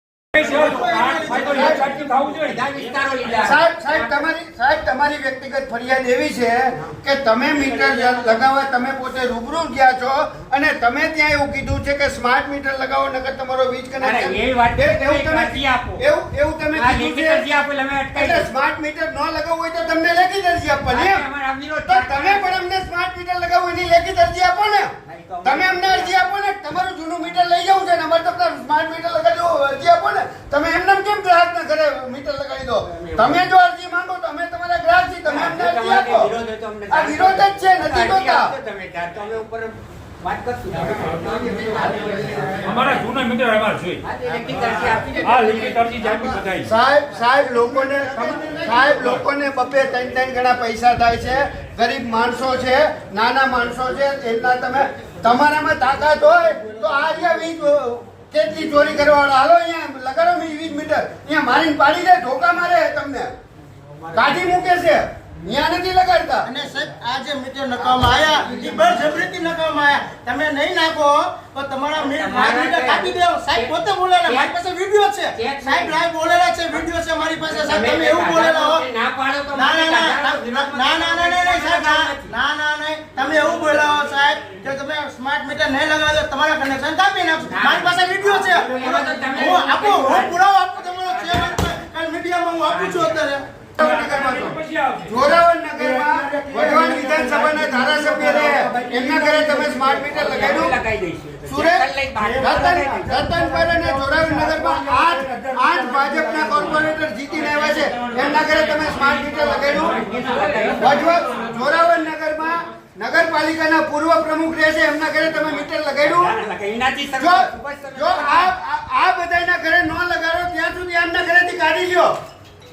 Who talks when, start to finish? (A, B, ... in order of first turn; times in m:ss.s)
0:00.4-0:02.6 A
0:00.4-0:01.9 B
0:01.5-0:01.8 C
0:02.4-0:04.3 D
0:03.4-0:17.4 C
0:14.0-0:16.0 D
0:16.7-0:18.5 D
0:18.2-0:21.2 C
0:20.9-0:22.6 D
0:21.8-0:24.9 C
0:25.1-0:26.1 D
0:25.4-0:36.3 C
0:32.9-0:33.4 D
0:35.2-0:42.7 D
0:36.9-0:38.5 C
0:42.6-0:44.0 A
0:44.0-0:45.8 D
0:45.2-0:46.7 A
0:46.6-1:03.3 C
0:48.2-0:49.0 B
1:04.1-1:06.5 C
1:06.4-1:18.8 B
1:12.0-1:14.5 D
1:15.3-1:16.0 D
1:17.5-1:22.3 D
1:19.5-1:33.4 B
1:27.5-1:30.4 D
1:30.9-1:31.7 D
1:32.7-1:33.2 D
1:33.8-1:40.8 C
1:33.8-1:37.1 A
1:36.3-1:40.4 B
1:40.2-1:43.2 D
1:41.5-1:50.0 C
1:43.2-1:44.7 B
1:44.8-1:46.3 A
1:47.8-1:51.5 D
1:49.8-1:50.8 A
1:50.8-1:56.3 C
1:56.0-1:58.5 D
1:57.2-2:02.1 C